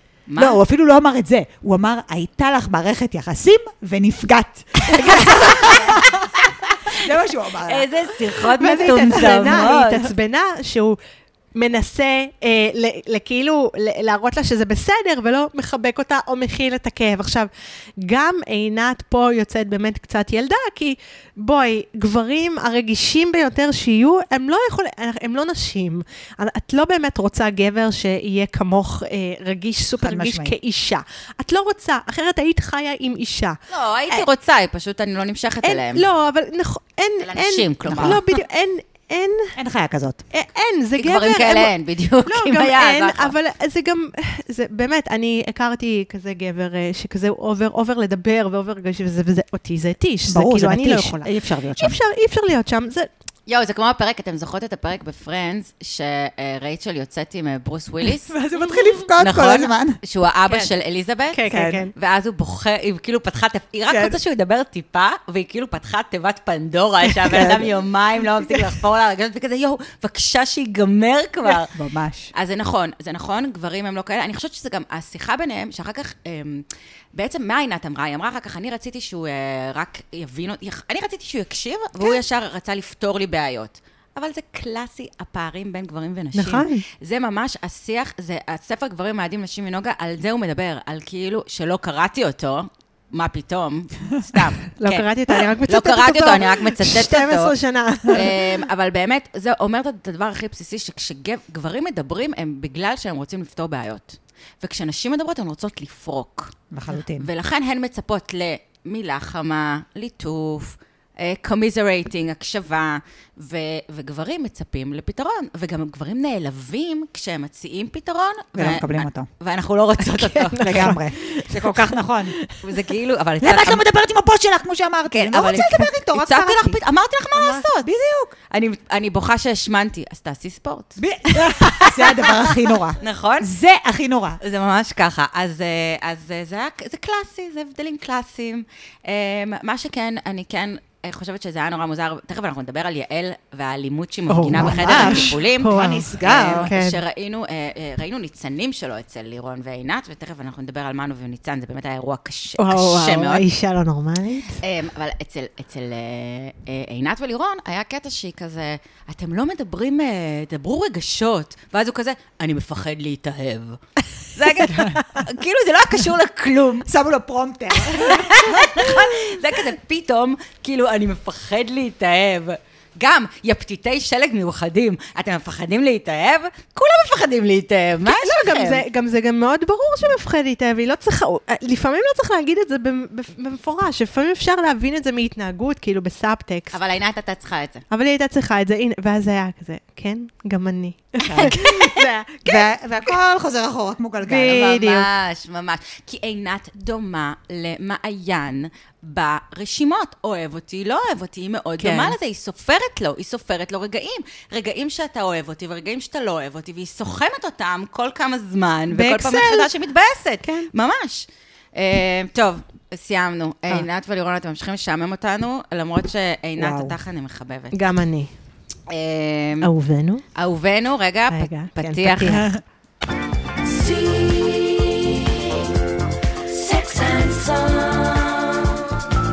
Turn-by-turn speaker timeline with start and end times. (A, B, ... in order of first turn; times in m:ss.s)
0:00.3-0:00.6 A
0:00.4-0:07.9 B
0:04.9-0:07.1 A
0:07.6-0:10.1 A
0:08.6-0:11.0 C
0:08.7-0:09.8 B
0:11.5-0:34.2 C
0:30.0-0:30.6 B
0:33.7-0:36.0 A
0:35.6-0:39.6 C
0:37.2-0:38.2 A
0:37.9-0:38.2 B
0:39.5-0:40.2 B
0:40.3-0:41.7 C
0:41.0-0:43.3 A
0:42.2-0:53.1 C
0:50.3-0:52.0 B
0:53.5-0:58.3 A
0:58.2-1:00.0 B
0:58.6-0:59.0 C
0:59.2-1:01.4 A
1:01.3-1:01.9 C
1:01.5-1:01.8 B
1:02.0-1:11.7 A
1:03.9-1:04.2 B
1:07.3-1:07.7 B
1:11.7-1:12.3 B
1:12.3-1:35.1 A
1:26.3-1:26.8 C
1:34.8-1:38.5 C
1:35.6-1:37.5 A
1:38.1-1:46.5 A
1:46.7-1:47.3 B
1:47.2-2:00.9 A
1:58.5-1:59.3 B
2:00.0-2:02.7 C
2:00.6-2:02.4 B
2:02.6-2:03.8 A
2:03.4-2:06.8 B
2:05.1-2:07.9 A
2:07.5-2:08.3 B
2:08.5-2:13.5 A
2:11.0-2:14.4 B
2:14.4-2:33.4 A
2:24.3-2:27.0 C
2:24.5-2:26.7 B
2:32.6-2:34.6 C
2:34.6-2:46.9 A
2:46.8-2:49.4 B
2:47.8-2:58.8 A
2:58.0-3:06.8 C
3:06.7-3:07.8 A
3:07.9-3:12.7 C
3:11.2-3:11.6 B
3:11.3-3:11.9 A
3:12.4-3:14.7 B
3:14.2-3:15.1 C
3:14.4-3:37.8 A
3:21.8-3:22.2 C
3:28.9-3:29.7 C
3:30.4-3:30.7 C
3:36.6-3:37.0 B
3:37.7-3:38.3 C
3:38.9-3:39.7 A
3:39.6-3:40.2 C
3:40.3-3:42.4 A
3:41.3-3:42.4 C
3:42.3-3:42.6 B
3:43.6-3:45.5 A
3:46.4-3:48.8 A